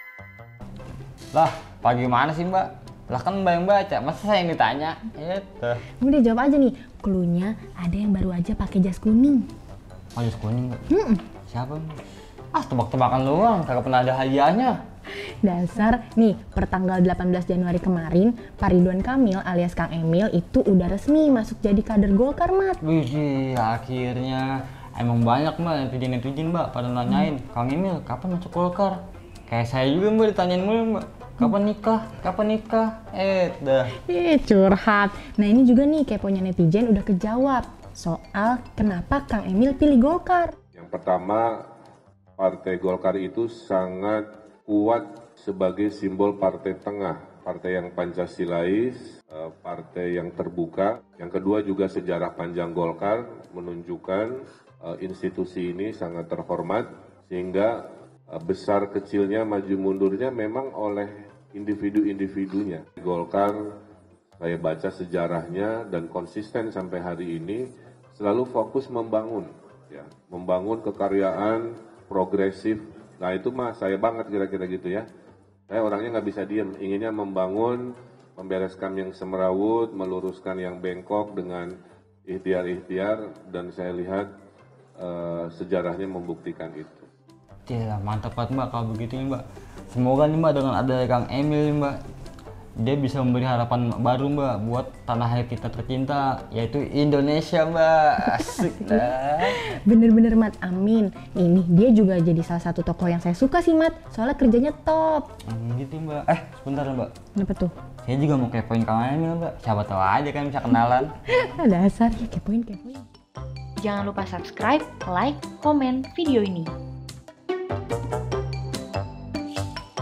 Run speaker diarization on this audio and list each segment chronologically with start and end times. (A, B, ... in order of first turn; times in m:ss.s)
0:01.3-0:05.8 A
0:06.0-0:09.4 B
0:10.1-0:10.8 A
0:10.9-0:11.2 B
0:11.5-0:12.0 A
0:12.5-0:14.8 A
0:15.4-0:22.8 B
0:22.8-0:33.9 A
0:34.0-0:40.5 B
0:40.7-0:41.6 C
0:42.4-1:03.7 C
1:04.4-1:15.0 C
1:15.7-1:21.7 C
1:22.3-1:24.3 C
1:25.0-1:27.1 C
1:27.7-1:32.0 A
1:32.8-1:39.6 A
1:38.2-1:45.3 B
1:45.5-1:47.1 A
1:47.3-1:47.7 B
1:48.0-1:51.1 A
1:51.3-1:53.0 B
1:53.8-1:56.7 D